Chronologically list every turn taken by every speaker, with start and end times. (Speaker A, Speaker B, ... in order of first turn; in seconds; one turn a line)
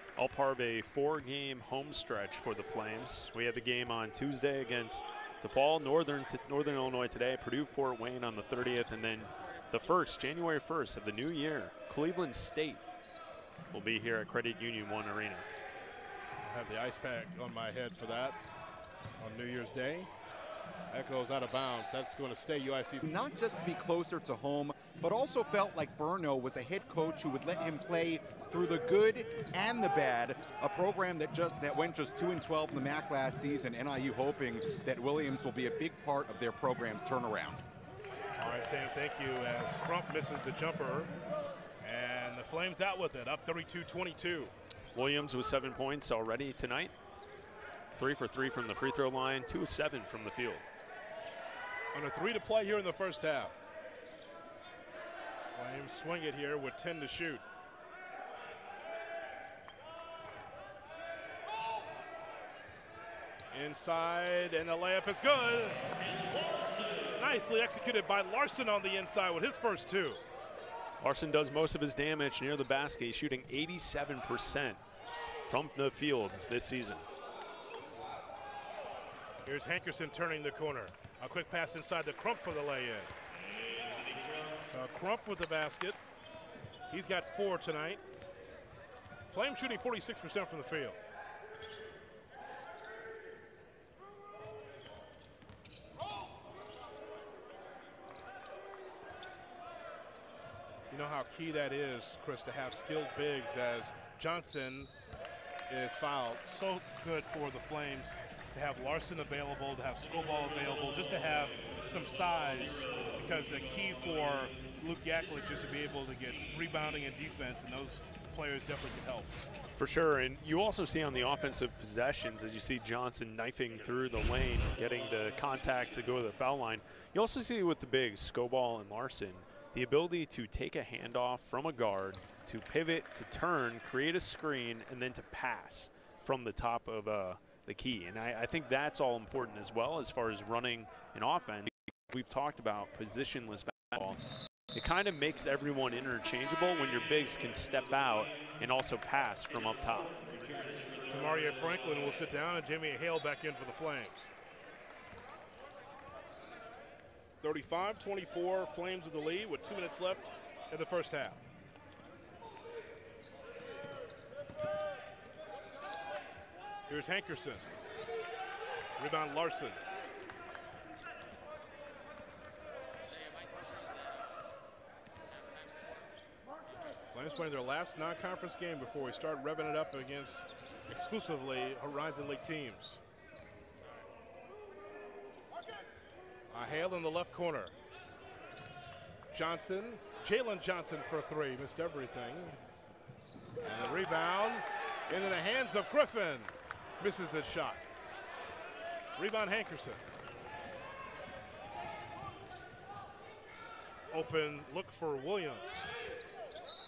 Speaker A: 0.2-12.8
Speaker A: 13.7-15.5
Speaker B: 16.4-18.4
Speaker B: 19.2-20.1
Speaker B: 20.9-23.1
Speaker C: 23.0-37.6
Speaker B: 38.4-41.1
Speaker B: 41.8-44.5
Speaker A: 44.9-46.9
Speaker A: 47.9-50.6
Speaker B: 51.9-53.6
Speaker B: 55.5-57.4
Speaker B: 63.5-65.8
Speaker B: 67.2-70.2
Speaker A: 71.0-74.8
Speaker A: 75.5-77.1
Speaker B: 79.5-83.1
Speaker B: 84.7-86.0
Speaker B: 86.9-88.0
Speaker B: 89.3-91.0
Speaker B: 100.9-104.9
Speaker B: 105.7-119.4
Speaker A: 119.8-150.2
Speaker B: 151.1-154.3
Speaker B: 157.4-161.4
Speaker B: 166.9-167.7
Speaker B: 169.0-169.8
Speaker B: 177.1-183.0
Speaker B: 186.5-187.7
Speaker B: 189.3-192.6
Speaker B: 193.7-197.8
Speaker B: 199.2-200.0
Speaker B: 204.1-205.9